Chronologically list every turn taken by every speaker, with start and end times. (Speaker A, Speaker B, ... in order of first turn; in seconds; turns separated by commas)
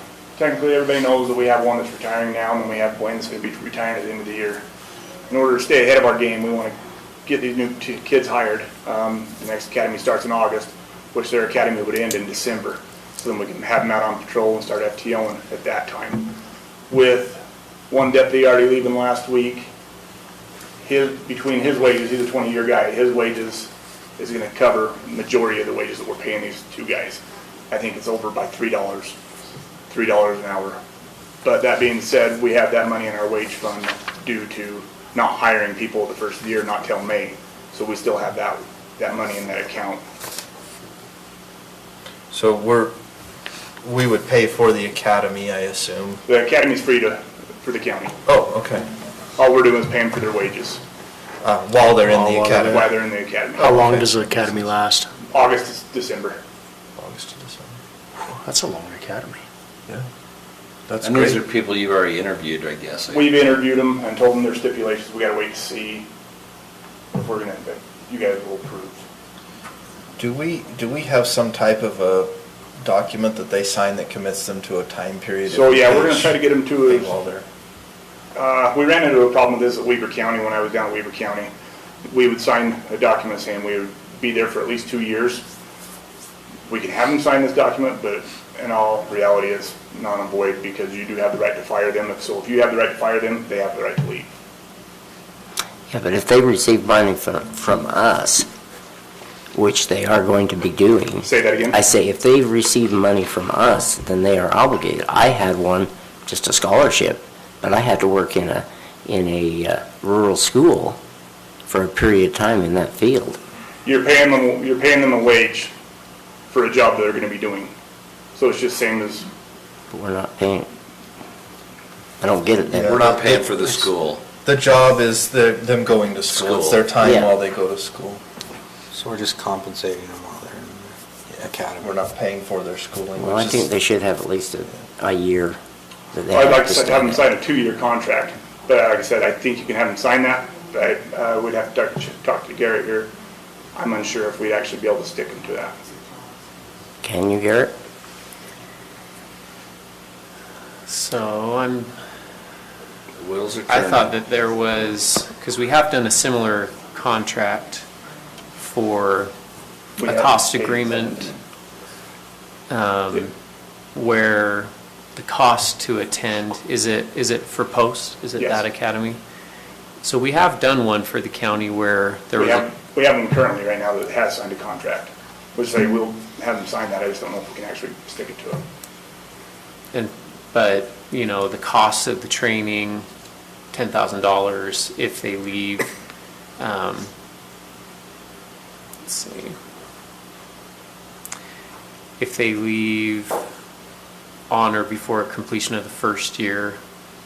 Speaker A: 0.4-4.6, Speaker A: 5.3-6.8, Speaker A: 7.2-16.3, Speaker A: 16.9-19.7, Speaker A: 20.8-29.1, Speaker A: 29.9-30.8, Speaker A: 31.4-40.0, Speaker B: 42.3-42.9, Speaker B: 43.8-46.2, Speaker A: 46.2-48.1, Speaker B: 48.2-48.9, Speaker A: 49.4-50.8, Speaker B: 51.4-52.9, Speaker C: 52.0-52.9, Speaker A: 52.6-54.1, Speaker C: 53.5-55.1, Speaker A: 55.3-56.4, Speaker B: 57.0-57.7, Speaker C: 58.2-59.4, Speaker B: 60.9-61.4, Speaker D: 61.0-63.3, Speaker A: 63.1-66.1, Speaker A: 67.1-69.0, Speaker B: 70.2-77.4, Speaker A: 75.5-77.1, Speaker A: 78.3-81.5, Speaker A: 82.0-85.4, Speaker A: 86.7-94.3, Speaker E: 95.9-98.5, Speaker E: 99.5-111.0, Speaker A: 101.2-101.8, Speaker E: 111.7-113.4, Speaker A: 113.8-115.7, Speaker A: 116.5-117.7, Speaker A: 118.3-119.3, Speaker E: 119.9-120.7, Speaker E: 122.2-123.3, Speaker B: 122.7-123.5, Speaker D: 122.9-124.2, Speaker B: 124.4-128.2, Speaker D: 126.3-126.9, Speaker E: 127.0-127.3, Speaker F: 128.9-131.9, Speaker B: 131.8-133.7, Speaker E: 133.2-135.6, Speaker E: 136.1-137.2, Speaker A: 136.3-143.1, Speaker A: 143.7-145.8, Speaker E: 147.0-147.7, Speaker G: 150.9-151.9, Speaker D: 153.2-154.2, Speaker G: 153.7-157.9, Speaker G: 158.6-159.3, Speaker A: 160.0-161.3, Speaker G: 160.0-161.3, Speaker G: 162.7-163.3, Speaker G: 163.9-169.2, Speaker G: 170.0-172.6, Speaker A: 172.3-178.6, Speaker G: 179.9-183.1, Speaker G: 183.7-185.9, Speaker G: 186.6-187.1, Speaker G: 189.1-189.5, Speaker G: 192.2-193.4, Speaker G: 194.5-196.8